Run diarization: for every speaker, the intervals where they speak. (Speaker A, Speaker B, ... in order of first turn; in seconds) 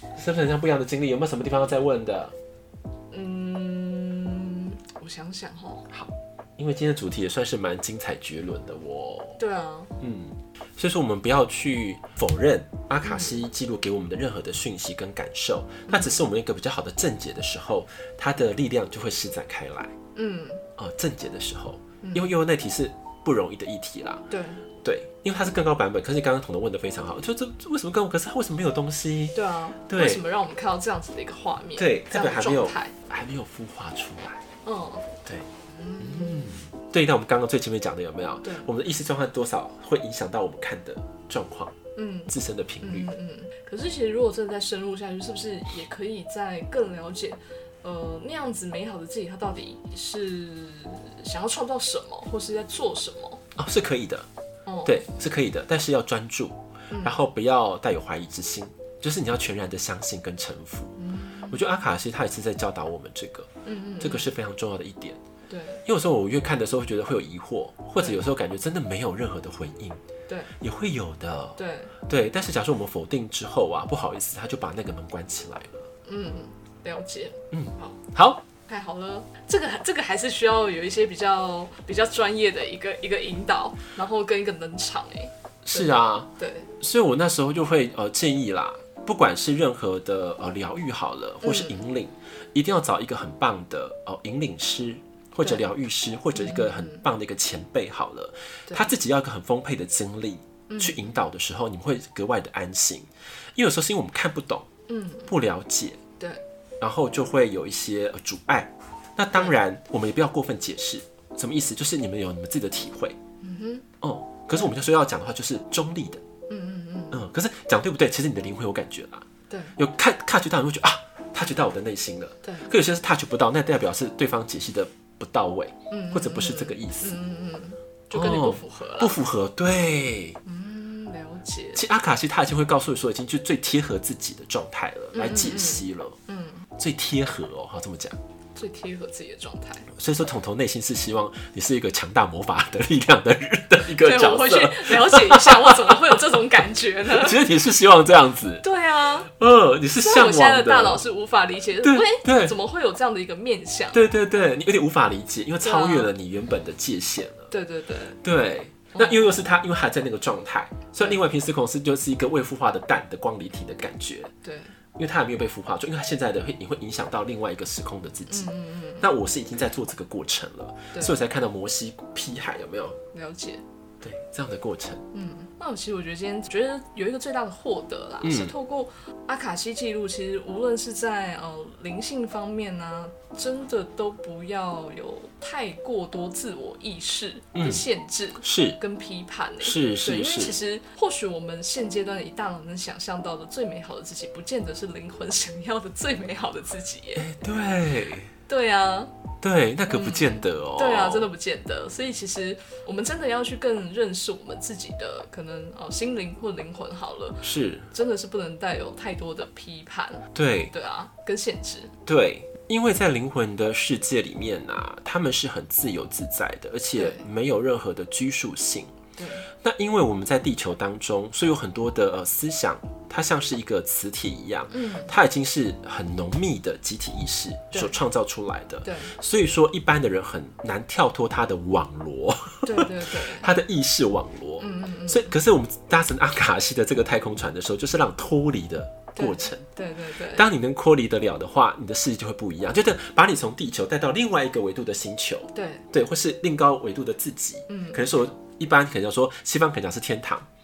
Speaker A: 0.1-2.3, 5.9-9.4, 10.0-19.9, 20.8-24.2, 24.8-30.2, 31.8-34.4, 36.0-41.8, 42.3-43.1, 53.6-54.3, 54.9-61.0, 61.5-63.5, 64.0-65.2, 65.8-70.0, 70.6-75.9, 77.5-78.4, 85.7-86.3, 86.8-104.7, 105.3-106.0, 106.8-113.2, 114.0-116.2, 117.1-119.3, 119.8-127.2, 128.1-130.4, 131.8-136.2, 136.8-138.2, 139.9-146.3, 147.1-148.7, 149.4-151.0, 151.8-152.6, 153.9-157.5, 158.2-164.3, 165.0-173.0, 174.0-175.1, 178.2-178.5, 187.6-187.8, 188.4-188.8, 189.6-190.6, 197.2-198.3, 199.4-201.3, 207.4-207.9, 210.3-210.7, 212.1-218.9, 219.6-239.7, 240.3-250.5
Speaker B: 3.1-5.9, 9.4-9.9, 13.0-13.4, 15.9-16.2, 20.1-20.6, 22.0-22.3, 24.3-24.6, 29.3-32.9, 34.6-35.1, 35.7-36.6, 42.0-53.4, 54.7-55.0, 56.9-57.2, 61.0-61.6, 63.6-64.3, 65.5-65.8, 71.6-71.9, 76.0-78.0, 78.6-86.7, 91.4-91.8, 95.4-95.7, 96.3-97.0, 100.7-101.1, 104.9-105.3, 113.4-113.9, 116.5-117.2, 119.5-119.8, 122.4-122.7, 125.9-129.1, 130.4-131.8, 135.1-136.7, 138.6-139.9, 144.0-147.4, 148.6-149.3, 149.9-154.0, 155.6-156.1, 157.5-158.2, 158.9-159.3, 164.4-164.7, 168.3-169.1, 173.1-173.6, 175.1-197.4, 198.5-199.1, 199.9-211.9, 216.9-217.2, 219.2-219.5, 224.7-225.1, 227.7-228.0, 228.8-229.1, 232.7-233.5, 234.6-235.3, 239.2-240.4, 245.5-245.8, 247.7-248.1